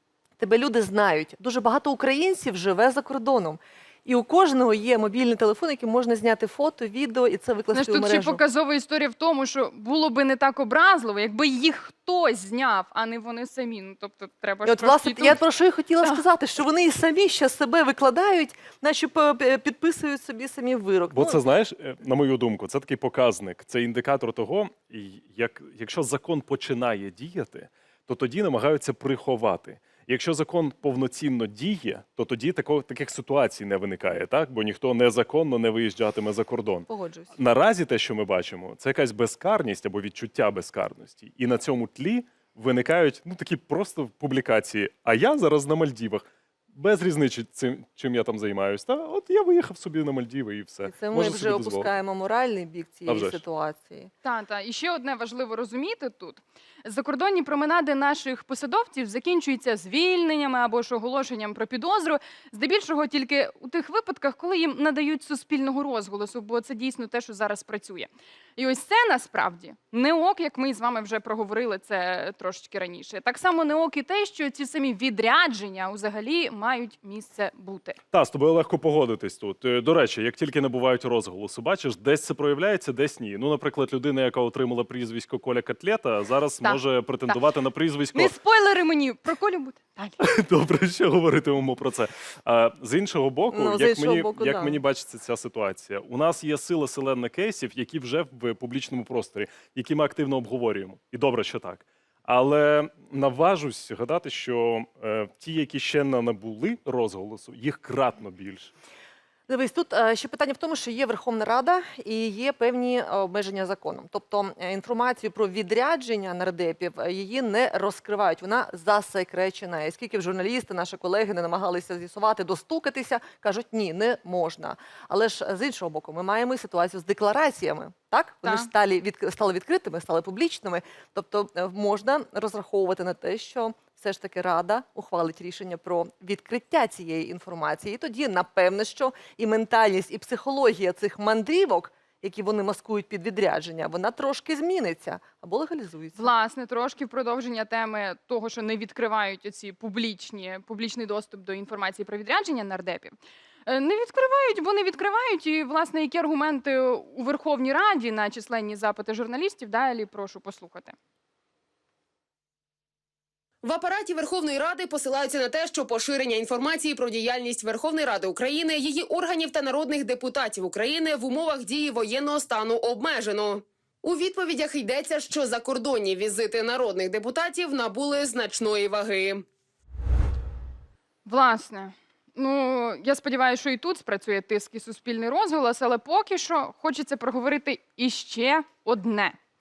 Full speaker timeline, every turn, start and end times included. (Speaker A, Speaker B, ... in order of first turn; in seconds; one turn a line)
Speaker A: 0.4-8.4
Speaker B: 7.7-15.4
Speaker A: 14.6-21.4
Speaker C: 21.1-51.9
Speaker A: 36.9-37.3
Speaker A: 50.8-54.1
Speaker C: 53.1-53.4
Speaker B: 54.2-78.0
Speaker C: 78.1-88.3
Speaker B: 86.6-87.4
Speaker B: 88.1-90.2
Speaker C: 90.2-108.7
Speaker A: 93.5-94.8
Speaker A: 109.5-146.3
Speaker B: 128.4-128.7
Speaker B: 146.2-160.9
Speaker D: 163.6-179.4
Speaker B: 181.2-189.3